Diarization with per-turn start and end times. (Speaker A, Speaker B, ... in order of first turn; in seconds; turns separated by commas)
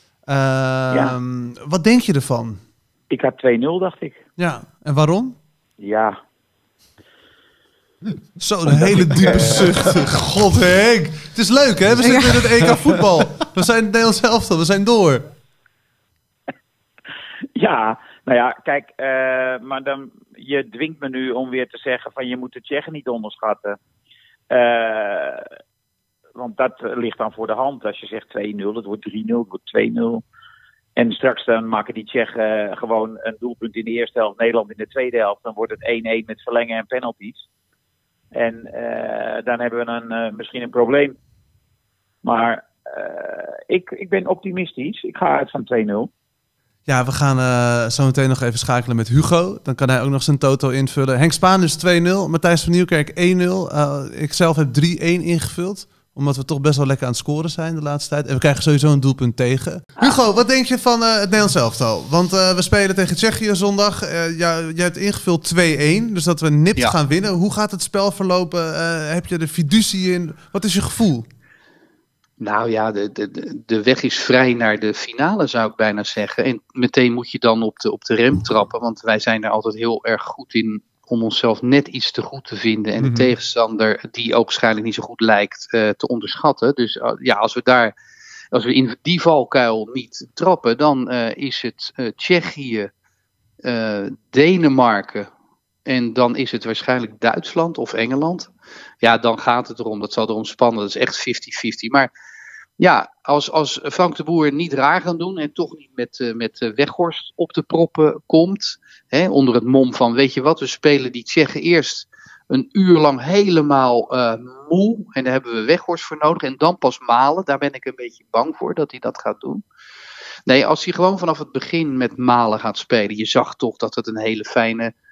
Speaker A: 0.3-2.6, Speaker B: 0.9-1.1, Speaker B: 3.1-4.2, Speaker A: 4.4-5.3, Speaker B: 5.8-6.1, Speaker A: 8.4-15.2, Speaker B: 9.2-9.7, Speaker B: 17.5-23.8, Speaker B: 24.5-25.5, Speaker B: 26.4-30.2, Speaker B: 30.9-37.4, Speaker B: 38.3-41.1, Speaker B: 42.2-46.1, Speaker A: 46.9-71.2, Speaker C: 72.4-87.9, Speaker A: 83.0-83.3, Speaker C: 88.5-92.9, Speaker C: 93.6-95.3, Speaker C: 95.8-98.5, Speaker C: 99.0-102.1, Speaker C: 102.8-119.6, Speaker C: 120.5-124.9